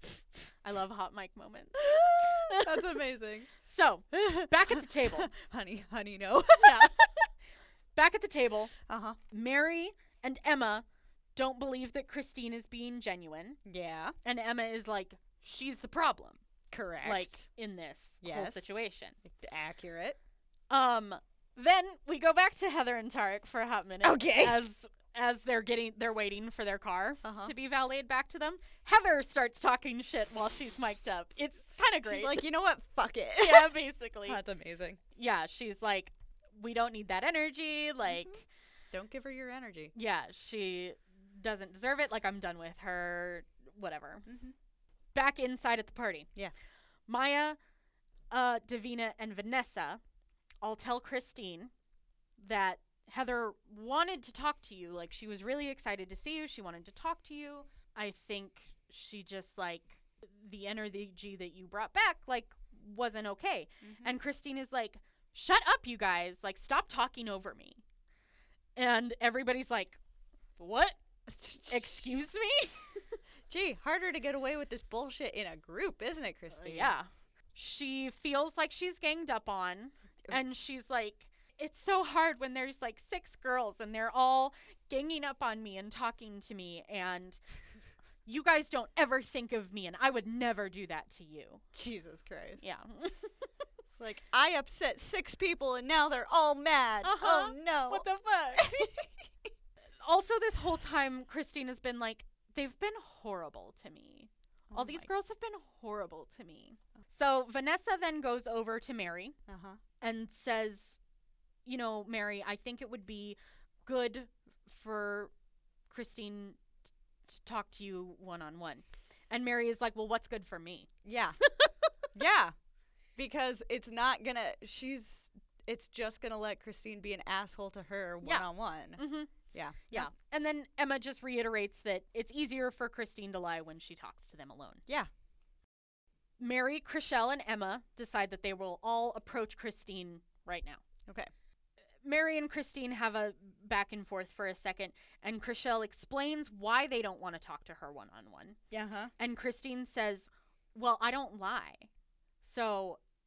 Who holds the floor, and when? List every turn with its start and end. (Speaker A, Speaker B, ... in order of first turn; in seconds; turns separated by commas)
Speaker A: 0.6-3.0, Speaker B: 1.8-3.5, Speaker A: 3.6-5.3, Speaker B: 4.1-7.1, Speaker A: 6.6-7.3, Speaker A: 8.0-8.7, Speaker B: 8.9-9.2, Speaker A: 9.3-10.8, Speaker A: 11.4-13.6, Speaker B: 13.6-14.1, Speaker A: 14.2-16.4, Speaker B: 16.7-17.5, Speaker A: 17.0-19.2, Speaker B: 18.2-20.2, Speaker A: 20.7-32.4, Speaker B: 24.0-24.6, Speaker B: 27.2-27.5, Speaker B: 32.1-35.0, Speaker A: 33.4-34.4, Speaker A: 35.1-38.5, Speaker B: 38.0-38.3, Speaker B: 38.9-39.9, Speaker A: 39.9-44.3, Speaker B: 44.3-44.5, Speaker A: 45.1-46.3, Speaker A: 47.1-47.6, Speaker A: 48.3-50.0, Speaker A: 50.6-51.7, Speaker A: 52.4-67.8, Speaker B: 63.8-64.1, Speaker A: 68.8-70.0, Speaker A: 70.6-71.0, Speaker B: 71.3-72.2, Speaker A: 71.7-73.0, Speaker B: 73.5-76.9, Speaker A: 76.5-87.4, Speaker A: 88.2-91.6, Speaker B: 91.8-92.7, Speaker A: 92.6-93.3, Speaker B: 94.0-99.3, Speaker A: 97.0-99.0, Speaker A: 100.0-109.4, Speaker B: 104.7-105.1, Speaker B: 109.5-109.8, Speaker A: 110.0-111.0, Speaker A: 111.6-115.3, Speaker A: 115.9-116.6, Speaker A: 117.3-120.9, Speaker B: 121.0-121.4, Speaker A: 121.4-121.9, Speaker B: 122.1-122.5, Speaker B: 123.2-130.1, Speaker A: 128.2-129.3, Speaker A: 129.9-134.8, Speaker A: 136.4-140.8, Speaker A: 142.0-148.6, Speaker B: 148.7-149.1, Speaker A: 149.2-151.9, Speaker A: 152.4-153.0